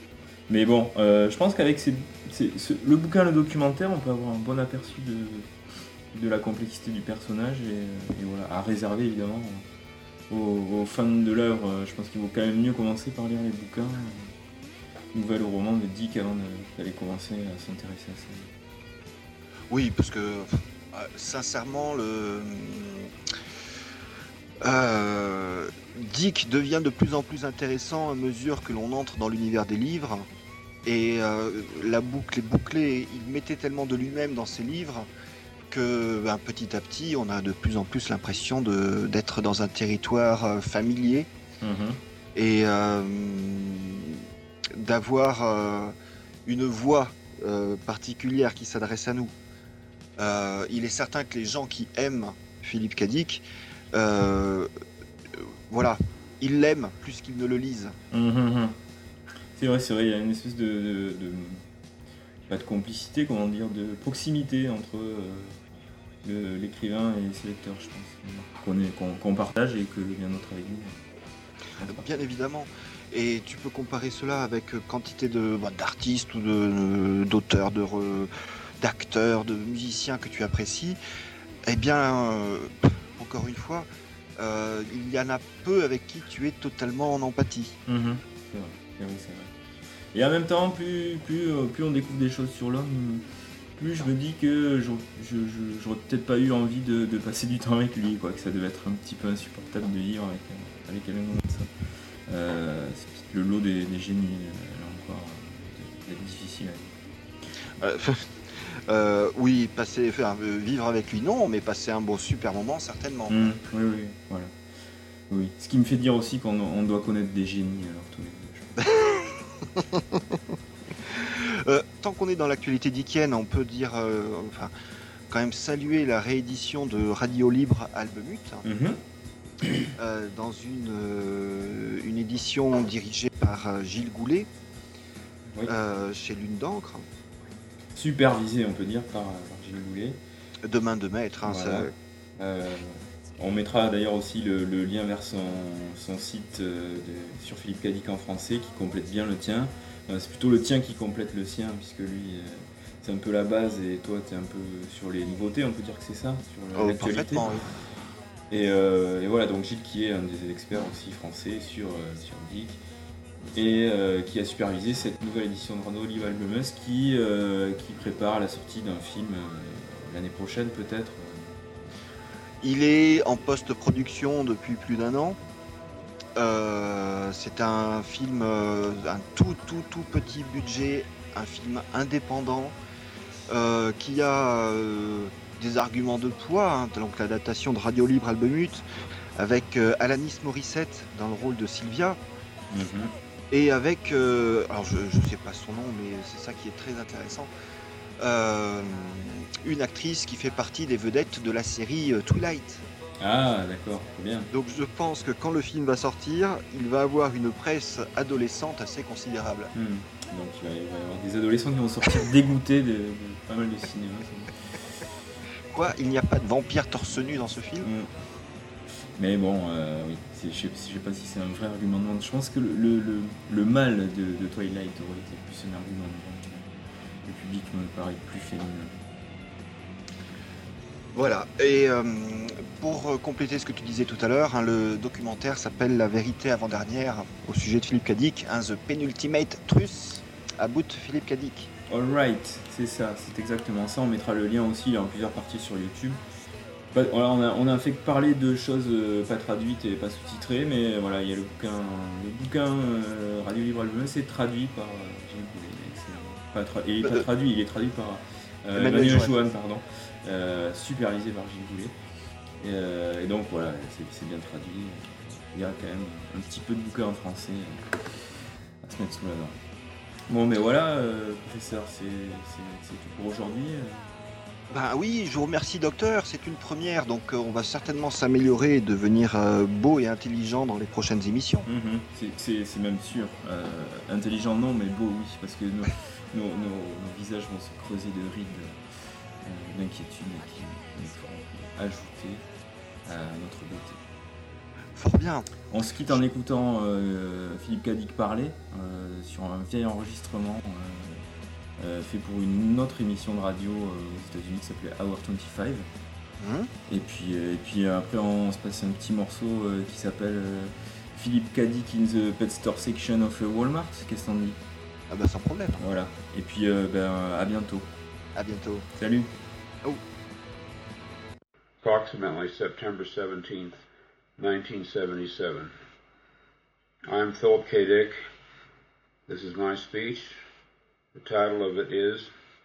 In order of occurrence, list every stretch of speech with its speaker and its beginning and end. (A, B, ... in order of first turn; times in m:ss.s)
0:00.5-0:05.5 A
0:06.1-0:09.6 A
0:10.3-0:14.3 A
0:15.1-0:18.5 A
0:19.7-0:23.1 B
0:24.6-0:30.3 B
0:30.8-0:35.1 B
0:35.7-0:41.3 B
0:41.6-0:42.0 A
0:42.3-0:45.9 B
0:46.4-0:49.3 B
0:50.2-0:54.7 B
0:55.3-0:58.0 B
0:58.1-0:58.8 A
0:59.5-1:01.6 A
1:02.5-1:05.6 A
1:06.2-1:11.0 A
1:11.8-1:12.1 A
1:11.8-1:21.0 B
1:21.6-1:27.8 B
1:27.9-1:29.5 A
1:30.1-1:33.2 A
1:33.8-1:41.7 A
1:42.3-1:47.0 A
1:47.8-1:53.4 B
1:53.3-1:54.5 A
1:55.3-1:58.8 A
1:58.8-2:00.4 B
2:01.0-2:04.7 B
2:05.3-2:08.6 B
2:08.6-2:09.0 A
2:10.0-2:14.5 B
2:15.6-2:17.0 B
2:17.9-2:20.2 A
2:20.6-2:21.9 B
2:21.4-2:21.9 A
2:22.4-2:37.5 A
2:36.7-2:37.7 B
2:38.5-2:42.8 A
2:43.5-2:51.6 A
2:52.6-2:55.4 B
2:56.4-3:02.7 B
3:03.5-3:08.8 B
3:09.4-3:12.2 B
3:12.7-3:13.1 A
3:13.5-3:17.5 B
3:18.2-3:22.8 B
3:23.2-3:24.5 A
3:24.5-3:29.7 B
3:29.7-3:34.9 A
3:35.7-3:37.9 B
3:37.8-3:38.1 A
3:39.2-3:46.7 A
3:47.2-3:49.0 A
3:51.1-4:01.7 B
4:01.9-4:06.2 A
4:06.9-4:21.9 A
4:18.8-4:19.3 B
4:22.6-4:28.0 A
4:28.8-4:29.6 A
4:30.3-4:34.1 A
4:34.7-4:41.7 B
4:41.7-4:48.8 A
4:49.4-4:52.4 A
4:53.0-4:54.0 A
4:54.9-4:55.5 B
4:55.7-5:01.2 A
5:01.8-5:05.9 A
5:06.4-5:06.7 B
5:06.9-5:14.6 A
5:15.1-5:15.8 B
5:15.8-5:17.9 A
5:18.3-5:18.9 B
5:19.0-5:19.3 A
5:21.8-5:23.8 C
5:24.4-5:25.7 C
5:27.1-5:28.2 C
5:29.3-5:30.3 C
5:31.1-5:32.3 C